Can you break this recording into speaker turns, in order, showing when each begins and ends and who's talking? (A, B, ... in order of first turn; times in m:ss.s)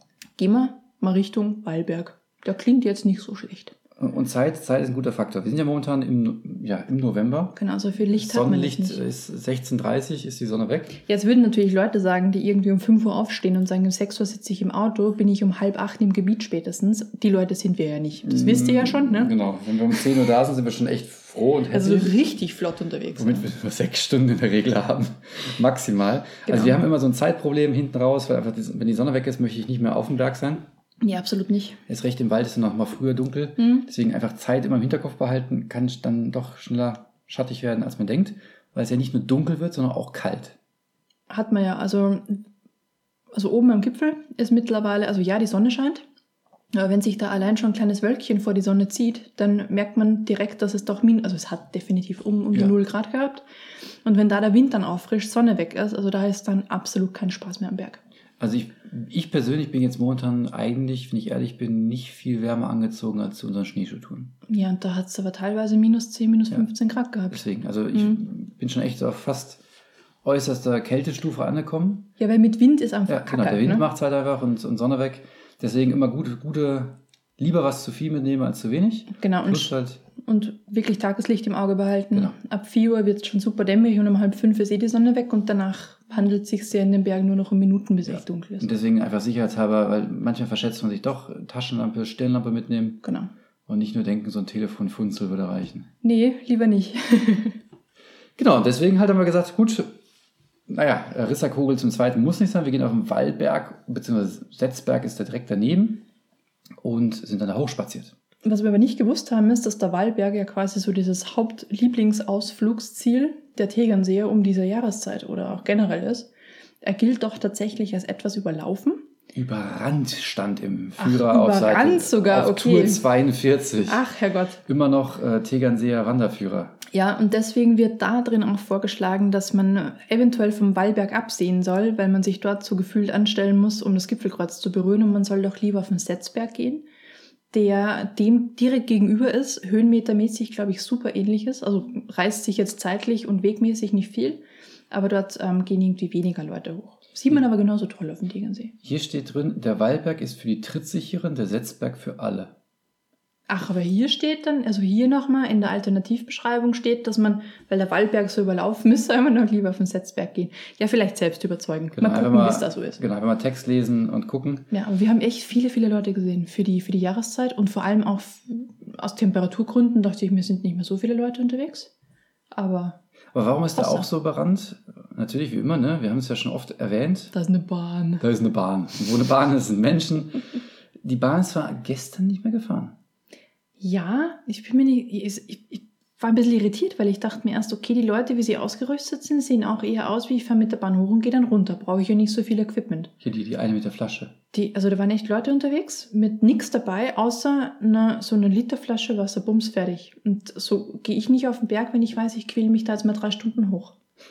0:00.4-0:03.7 A
0:04.0-0:07.6 B
0:07.6-0:09.0 A
0:08.1-0:11.0 B
0:11.0-0:19.3 A
0:18.2-0:22.2 B
0:21.7-0:23.5 A
0:23.1-0:30.6 B
0:26.4-0:26.8 A
0:31.0-0:31.8 A
0:31.9-0:40.6 B
0:33.6-0:33.9 A
0:41.3-0:42.4 A
0:43.3-0:46.0 A
0:46.7-0:53.4 A
0:54.0-0:58.0 A
0:58.4-1:04.3 B
1:04.5-1:08.2 A
1:07.3-1:09.6 B
1:10.2-1:12.1 B
1:12.2-1:13.8 A
1:13.1-1:20.0 B
1:19.1-1:28.7 A
1:28.0-1:33.0 B
1:33.0-1:33.3 A
1:33.7-1:35.9 B
1:36.0-1:37.6 A
1:38.4-1:39.9 B
1:40.7-1:46.0 B
1:46.8-1:48.1 B
1:48.4-1:56.3 A
1:56.8-1:59.0 A
1:59.3-2:04.0 B
2:01.0-2:03.0 A
2:03.9-2:04.6 A
2:04.6-2:06.8 B
2:06.9-2:16.8 A
2:17.5-2:28.7 A
2:28.8-2:32.5 B
2:33.5-2:43.0 A
2:41.9-2:44.7 B
2:44.7-2:51.9 A
2:52.5-2:53.0 A
2:53.3-2:57.3 B
2:53.7-2:54.1 A
2:57.3-2:58.2 A
2:58.2-3:00.4 B
3:01.0-3:03.0 B
3:03.8-3:13.1 A
3:13.2-3:14.3 B
3:14.5-3:23.9 A